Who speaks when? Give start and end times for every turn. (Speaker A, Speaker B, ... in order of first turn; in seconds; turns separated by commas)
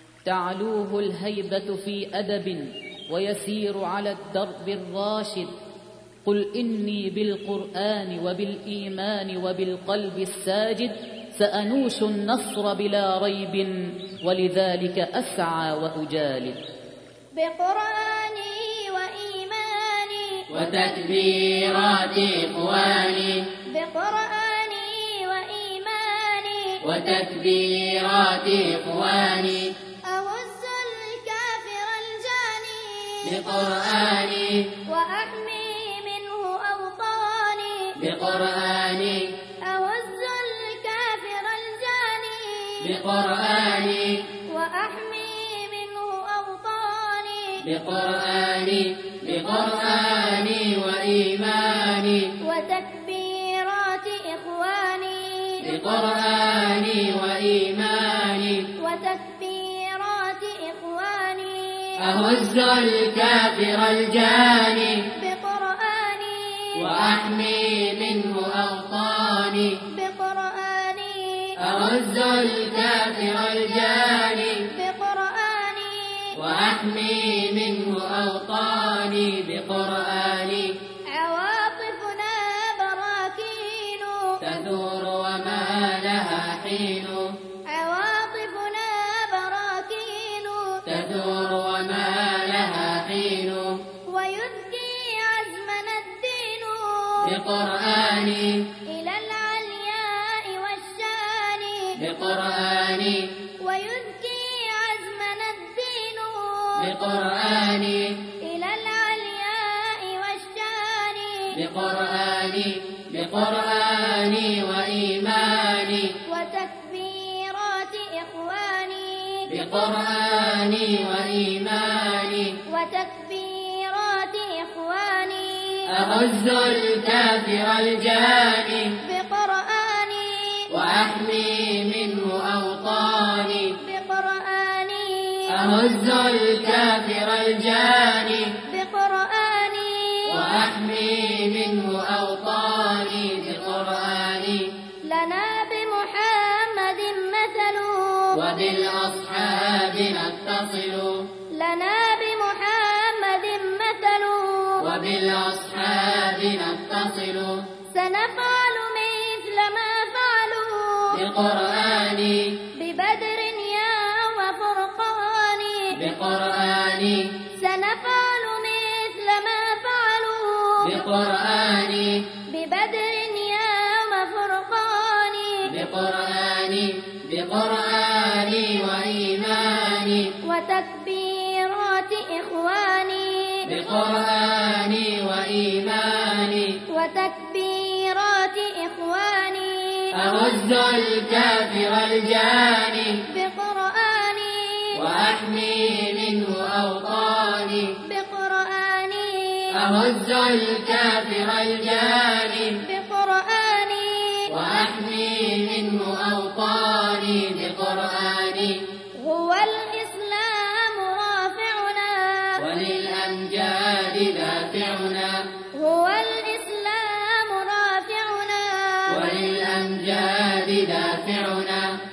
Speaker A: 0.2-5.5, Speaker A: 6.2-16.6, Speaker B: 17.3-20.4, Speaker C: 20.5-23.4, Speaker B: 23.7-26.8, Speaker C: 26.8-29.7, Speaker B: 30.0-33.4, Speaker C: 33.2-34.7, Speaker B: 34.9-38.0, Speaker C: 38.0-39.3, Speaker B: 39.6-42.9, Speaker C: 42.8-44.2, Speaker B: 44.5-47.6, Speaker C: 47.6-52.3, Speaker B: 52.4-55.7, Speaker C: 55.6-58.6, Speaker B: 58.8-62.0, Speaker C: 62.0-65.0, Speaker B: 65.2-66.8, Speaker C: 66.8-69.7, Speaker B: 69.9-71.6, Speaker C: 71.6-74.6, Speaker B: 74.7-76.3, Speaker C: 76.3-80.7, Speaker B: 81.1-84.4, Speaker C: 84.4-87.3, Speaker B: 87.7-90.8, Speaker C: 90.8-93.7, Speaker B: 94.1-97.3, Speaker C: 97.2-98.7, Speaker B: 98.9-102.0, Speaker C: 102.0-103.3, Speaker B: 103.6-106.9, Speaker C: 106.8-108.2, Speaker B: 108.4-111.6, Speaker C: 111.5-116.1, Speaker B: 116.2-119.5, Speaker C: 119.5-122.6, Speaker B: 122.7-125.9, Speaker C: 125.9-129.0, Speaker B: 129.0-130.7, Speaker C: 130.7-133.7, Speaker B: 133.8-135.5, Speaker C: 135.5-138.6, Speaker B: 138.7-140.5, Speaker C: 140.3-144.7, Speaker B: 145.1-148.4, Speaker C: 148.3-151.2, Speaker B: 151.5-154.9, Speaker C: 154.8-157.6, Speaker B: 157.9-161.2, Speaker C: 161.1-162.5, Speaker B: 162.7-166.0, Speaker C: 165.9-167.3, Speaker B: 167.5-171.0, Speaker C: 170.8-172.2, Speaker B: 172.5-175.7, Speaker C: 175.7-180.3, Speaker B: 180.4-183.7, Speaker C: 183.6-186.8, Speaker B: 186.9-190.1, Speaker C: 190.1-193.2, Speaker B: 193.3-195.0, Speaker C: 194.9-197.9, Speaker B: 198.1-199.7, Speaker C: 199.7-202.8, Speaker B: 202.8-204.5, Speaker C: 204.5-208.8, Speaker B: 209.2-212.6, Speaker C: 212.6-215.4, Speaker B: 215.7-219.3, Speaker C: 219.1-221.9